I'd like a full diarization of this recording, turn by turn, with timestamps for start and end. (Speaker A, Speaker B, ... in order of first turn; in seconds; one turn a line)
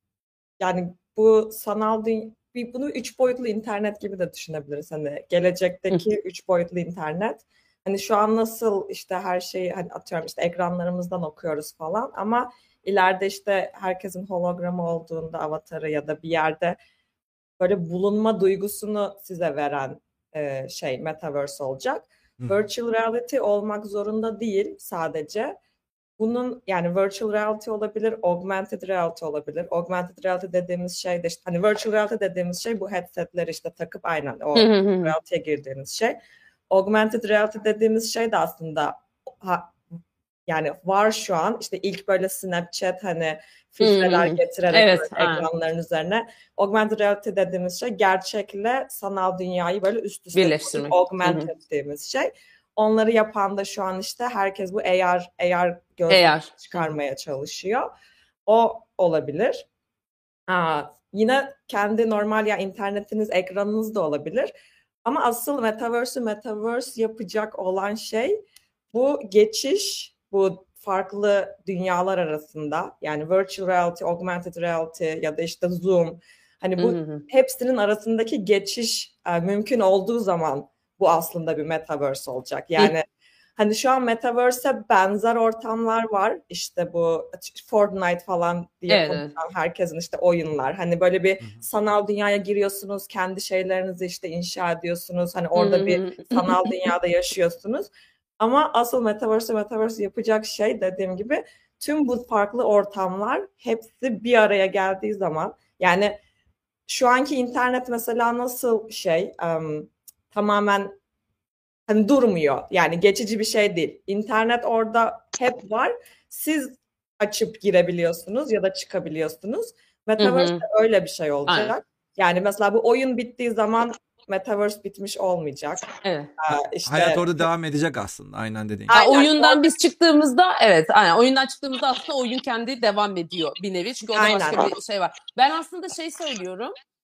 Speaker A: 0.6-16.8
Speaker A: 17.6-25.6
Speaker B: 22.4-22.7
Speaker A: 26.2-36.1
Speaker C: 34.5-35.1
Speaker A: 36.7-39.7
Speaker A: 40.5-57.9
Speaker C: 43.8-45.5
Speaker C: 50.3-51.5
Speaker C: 56.1-56.6
Speaker A: 58.5-59.6
Speaker A: 60.5-64.5
Speaker A: 65.0-68.4
Speaker A: 68.9-83.0
Speaker C: 76.8-77.2
Speaker A: 83.6-106.2
Speaker C: 88.9-89.3
Speaker C: 95.5-96.7
Speaker A: 106.9-110.9
Speaker A: 111.9-127.5
Speaker C: 120.2-120.6
Speaker C: 121.5-121.7
Speaker C: 126.0-126.3
Speaker B: 126.5-128.9
Speaker A: 128.9-129.7
Speaker C: 128.9-136.7
Speaker A: 134.1-134.7